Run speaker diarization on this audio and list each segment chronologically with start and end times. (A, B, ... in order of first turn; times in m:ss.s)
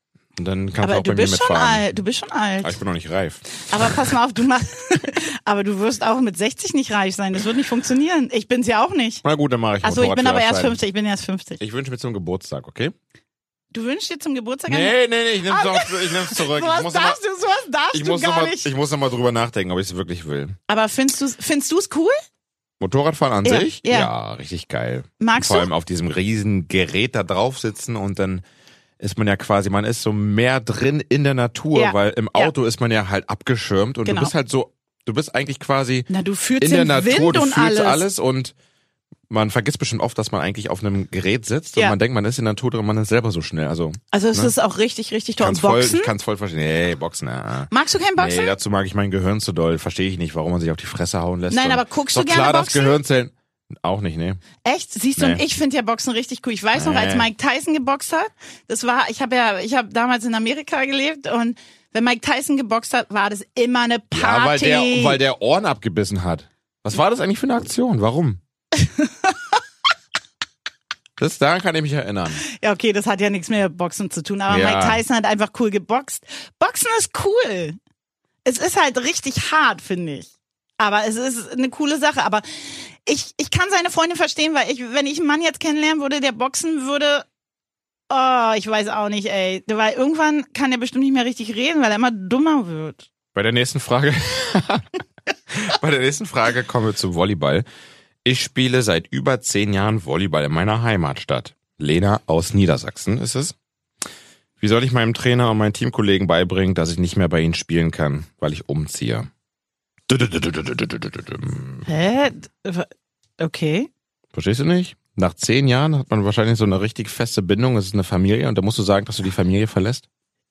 0:00.4-0:01.8 A
0:00.8-0:02.8 B
0:02.6-0:03.9 A
0:03.6-0:09.2 B
0:09.2-0:10.8 A
0:09.8-0:11.6 B
0:11.6-0:12.9 A
0:13.7-0:18.7 B
0:14.7-0:17.2 A
0:17.9-0:20.6 A
0:20.7-0:22.2 B
0:22.8-0:28.4 A
0:23.4-0:24.1 B
0:25.2-0:25.7 B
0:29.0-0:36.1 A
0:31.7-0:32.5 B
0:34.0-0:34.3 B
0:36.1-0:38.0 B
0:36.6-0:38.5 A
0:39.3-0:44.5 A
0:44.1-0:46.1 B
0:45.4-0:54.4 A
0:47.7-0:48.6 B
0:51.5-0:53.0 B
0:54.6-1:05.2 B
0:55.2-0:55.4 A
0:56.8-0:57.3 A
1:04.1-1:08.4 A
1:08.8-1:09.3 B
1:11.2-1:12.4 A
1:12.4-1:17.8 B
1:14.5-1:15.0 A
1:18.4-1:22.4 B
1:23.0-1:27.2 B
1:28.1-1:33.1 B
1:33.3-1:34.9 A
1:35.5-1:37.6 A
1:38.2-1:43.5 A
1:44.6-1:49.3 A
1:50.1-1:51.8 A
1:51.8-1:52.9 B
1:53.4-1:53.9 B
1:54.3-2:00.0 A